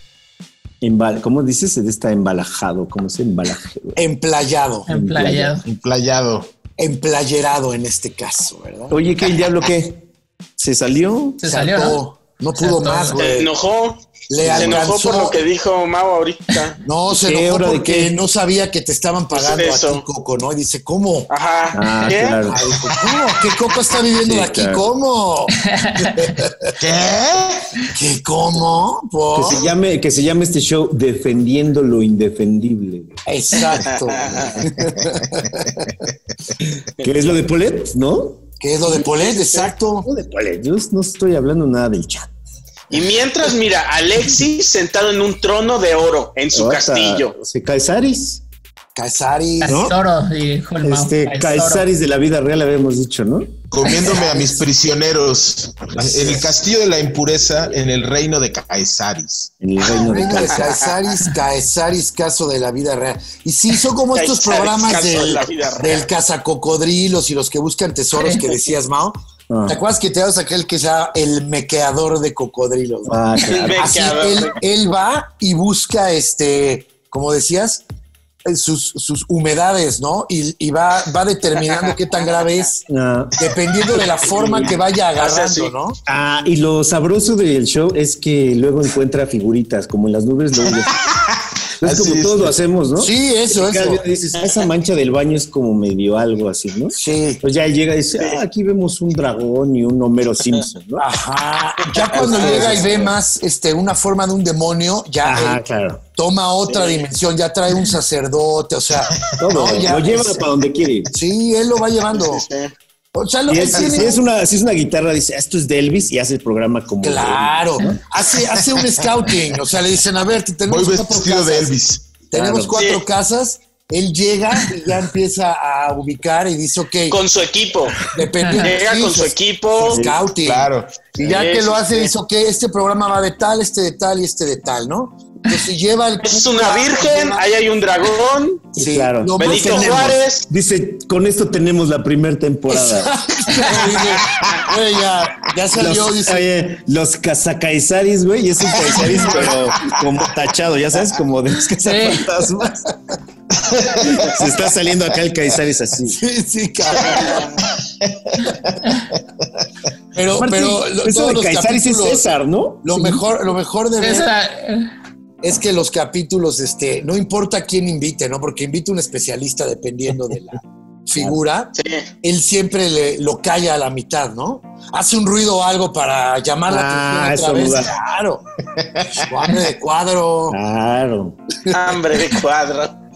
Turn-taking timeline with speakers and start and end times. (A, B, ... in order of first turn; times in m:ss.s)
0:00.8-0:04.0 A
0:04.0-0:04.9 B
0:04.9-0:05.6 C
0:04.9-0:05.6 A
0:05.6-0:06.5 D
0:06.8-0:09.0 B
0:08.9-0:10.1 A
0:10.6-0:11.4 A
0:11.4-0:12.0 C
0:11.4-0:13.5 B
0:12.6-0:13.2 C
0:13.2-0:16.8 E
0:14.3-0:15.4 B
0:14.4-0:14.9 A
0:16.8-0:21.3 B
0:17.1-0:18.2 A
0:19.3-0:20.0 E
0:21.3-0:22.4 E
0:21.7-0:22.6 A
0:22.5-0:26.7 B
0:24.2-0:24.8 A
0:25.6-0:26.3 C
0:26.8-0:27.7 D
0:27.9-0:29.7 B
0:29.3-0:33.2 A
0:33.3-0:35.8 B
0:33.8-0:34.6 E
0:37.0-0:38.5 A
0:38.6-0:40.1 B
0:39.1-0:39.7 E
0:40.0-0:42.3 A
0:42.9-0:47.3 E
0:46.5-0:48.4 A
0:49.0-0:49.9 B
0:49.6-0:51.9 C
0:49.7-0:49.9 A
0:50.8-0:54.2 A
0:53.7-0:59.5 D
0:56.1-0:56.5 A
0:59.6-1:00.8 A
1:00.0-1:13.2 B
1:04.1-1:06.1 E
1:08.2-1:08.5 C
1:09.5-1:09.8 A
1:13.1-1:14.1 A
1:13.5-1:14.6 E
1:13.8-1:17.8 B
1:18.4-1:22.8 B
1:22.9-1:23.4 A
1:23.4-1:26.0 B
1:24.3-1:24.7 A
1:25.2-1:25.7 E
1:26.1-1:31.0 A
1:31.0-1:32.5 D
1:31.8-1:41.1 A
1:33.0-1:34.0 B
1:37.0-1:37.4 B
1:41.0-1:45.6 B
1:42.0-1:42.4 E
1:42.2-1:43.1 A
1:45.2-1:46.0 A
1:46.1-1:50.5 B
1:46.7-1:47.0 E
1:49.4-1:51.1 A
1:51.1-1:52.4 B
1:52.1-1:52.7 E
1:53.1-1:54.2 B
1:53.5-1:57.9 A
1:57.0-2:01.8 B
2:00.7-2:02.2 D
2:02.3-2:07.2 B
2:02.3-2:02.8 A
2:02.8-2:03.0 E
2:07.1-2:08.0 E
2:08.1-2:17.4 B
2:08.4-2:08.7 C
2:08.6-2:10.0 E
2:09.9-2:10.2 A
2:10.4-2:11.0 D
2:11.2-2:12.1 E
2:16.2-2:18.6 E
2:18.8-2:20.2 B
2:18.8-2:23.2 A
2:19.4-2:20.5 E
2:22.7-2:26.5 B
2:25.7-2:32.9 A
2:29.2-2:29.5 B
2:31.8-2:32.3 C
2:33.6-2:34.3 D
2:34.0-2:36.2 A
2:36.1-2:37.5 B
2:38.0-2:38.8 D
2:40.1-2:42.3 B
2:40.3-2:43.2 A
2:42.8-2:44.3 B
2:44.0-2:44.9 C
2:45.4-2:58.4 B
2:51.8-2:52.1 E
2:56.7-2:57.9 A
2:58.8-2:59.2 D
2:59.1-3:00.6 B
3:00.5-3:01.4 A
3:01.7-3:02.9 E